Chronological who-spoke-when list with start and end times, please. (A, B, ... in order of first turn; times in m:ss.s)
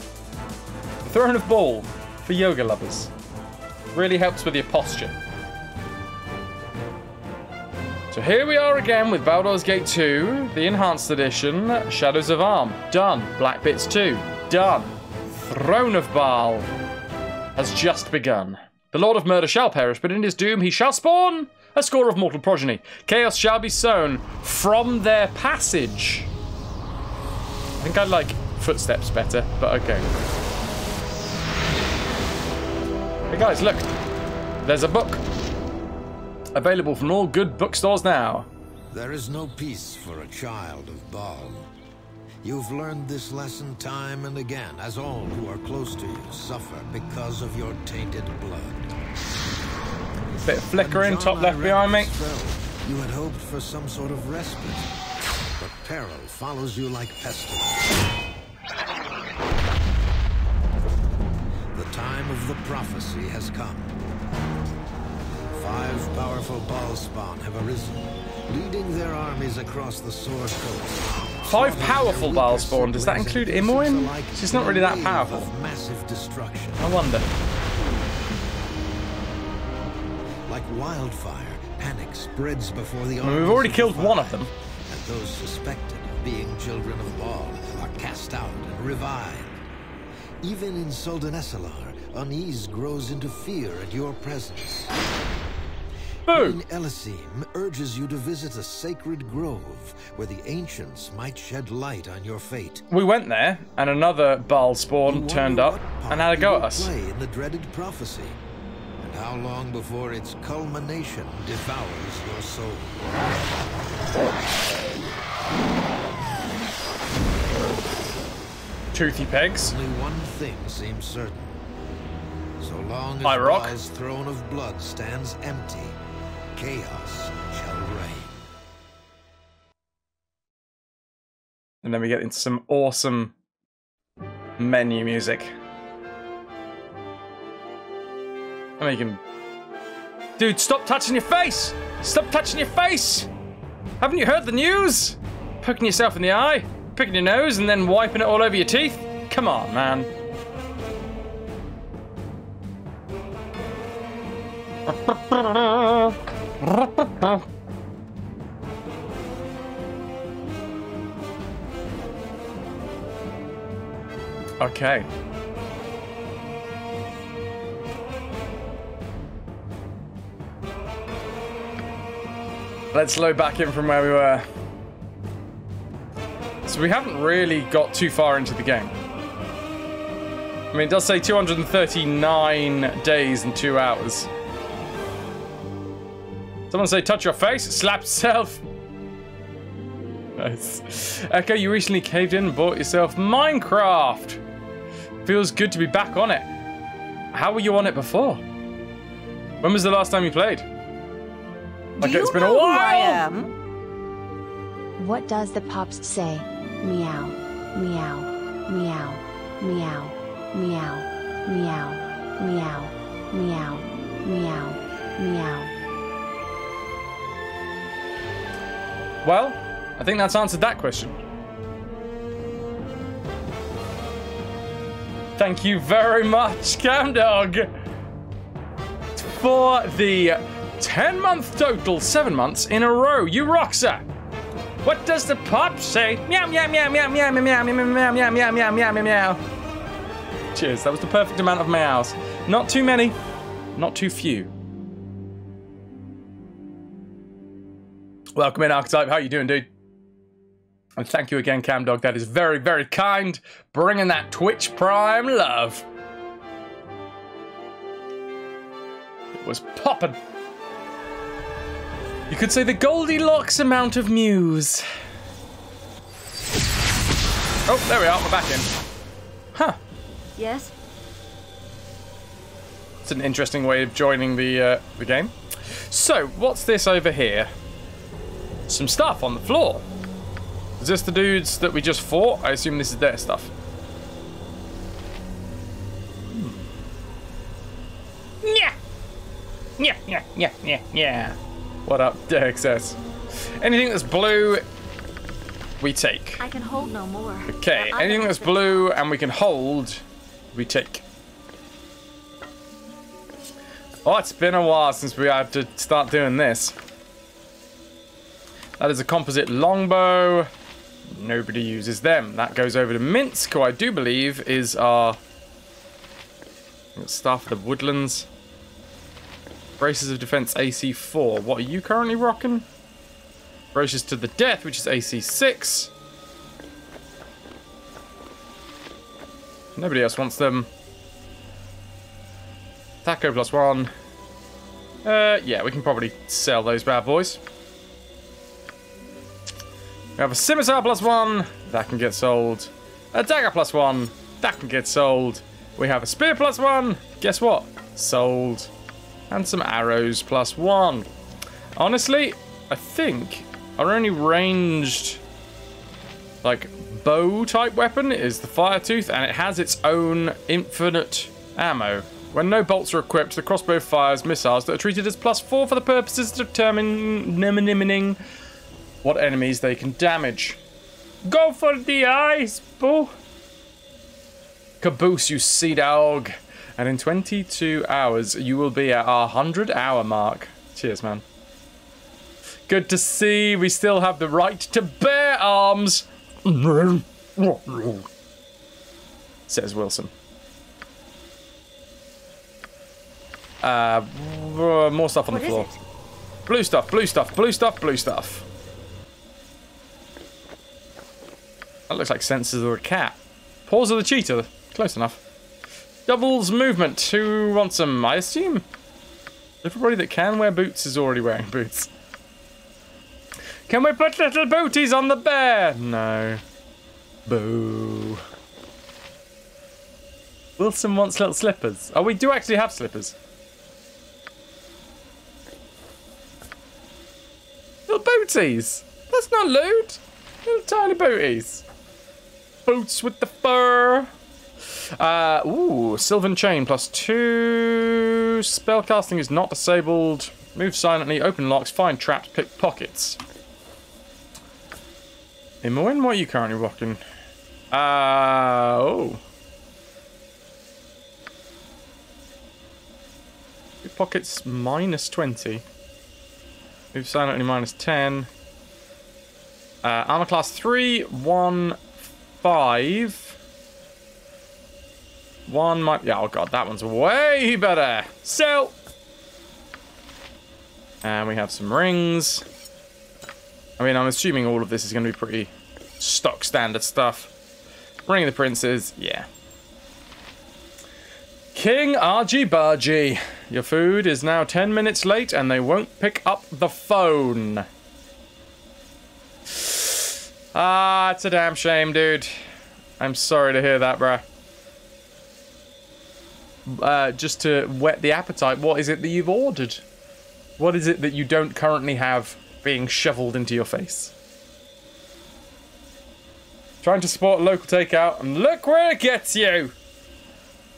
0:01.0-0:03.1 A
0:03.9-0:05.2 A
0:08.1-0:16.7 A
0:17.6-0:26.3 A
0:27.8-0:30.0 A
0:33.3-0:33.9 A
0:34.6-0:35.2 A
0:36.5-0:38.5 A
0:38.9-0:41.7 B
0:42.4-0:48.8 B
0:50.4-0:52.1 A
0:50.8-0:54.9 B
0:55.6-0:57.9 B
1:01.7-1:04.0 B
1:05.5-1:17.0 B
1:11.5-1:15.5 A
1:16.8-1:17.2 A
1:20.5-1:29.6 B
1:23.2-1:24.5 A
1:30.4-1:34.9 B
1:36.3-1:36.6 A
1:36.3-1:42.8 B
1:42.9-1:46.9 A
1:45.0-1:48.4 B
1:49.0-1:53.0 B
1:58.9-1:59.7 A
1:59.6-2:01.6 B
2:02.6-2:06.0 B
2:03.2-2:03.8 A
2:06.5-2:08.3 B
2:11.8-2:13.3 A
2:14.6-2:15.5 A
2:18.8-2:19.2 A
2:20.4-2:23.3 A
2:24.0-2:30.1 A
2:34.9-2:37.4 A
2:44.6-2:45.1 A
2:52.9-2:54.5 A
2:56.6-2:58.9 A
3:00.7-3:04.3 A
3:06.7-3:08.6 A
3:10.4-3:14.4 A
3:15.2-3:16.5 A
3:17.3-3:18.4 A
3:19.6-3:20.6 A
3:22.0-3:23.2 A
3:22.0-3:23.4 C
3:25.0-3:35.7 D
3:39.2-3:41.2 A
3:45.4-3:47.7 A
3:49.2-3:54.0 A
3:54.8-3:59.4 A
4:00.5-4:03.2 A
4:03.7-4:04.5 A
4:08.4-4:09.7 A
4:11.0-4:15.8 A
4:19.3-4:20.2 A
4:22.3-4:24.8 A
4:27.7-4:28.7 A
4:30.4-4:30.7 C
4:33.0-4:37.5 A
4:38.7-4:39.8 A
4:40.8-4:43.5 A
4:46.3-4:46.6 A
4:48.4-4:48.7 A
4:49.8-4:53.0 A
4:53.6-4:54.6 A
4:55.8-4:56.4 A
4:56.4-4:58.8 C
4:57.5-5:01.0 A
5:04.0-5:06.8 A
5:08.8-5:10.5 A
5:11.1-5:15.2 A
5:17.0-5:18.3 A
5:19.8-5:22.6 A
5:23.7-5:25.9 A
5:29.7-5:30.7 A
5:33.0-5:33.9 A
5:35.0-5:37.4 A
5:40.2-5:48.7 A
5:49.3-5:51.1 A
5:51.8-5:55.2 A
5:56.4-6:08.2 A
6:09.0-6:10.6 A
6:11.2-6:13.1 A
6:14.8-6:21.2 A
6:22.7-6:28.1 A
6:29.5-6:30.1 A
6:33.6-6:35.7 A
6:35.3-6:35.8 C
6:36.5-6:38.4 A
6:41.9-6:45.2 A
6:46.1-6:48.6 A
6:49.6-6:51.9 A
6:53.7-6:56.4 A
6:57.2-6:58.2 A
7:00.6-7:03.1 A
7:07.9-7:11.6 A
7:12.6-7:14.1 A
7:15.0-7:23.2 A
7:25.6-7:27.0 A
7:27.7-7:29.2 A
7:33.8-7:35.6 A
7:36.9-7:38.3 A
7:39.8-7:41.9 A
7:42.4-7:43.4 A
7:45.5-7:48.7 A
7:51.0-7:52.4 A
7:53.8-7:57.3 A
7:58.1-7:59.3 A
8:01.5-8:07.6 A
8:09.5-8:12.3 A
8:13.0-8:14.2 A
8:16.6-8:19.8 A
8:20.6-8:24.1 A
8:26.8-8:29.7 A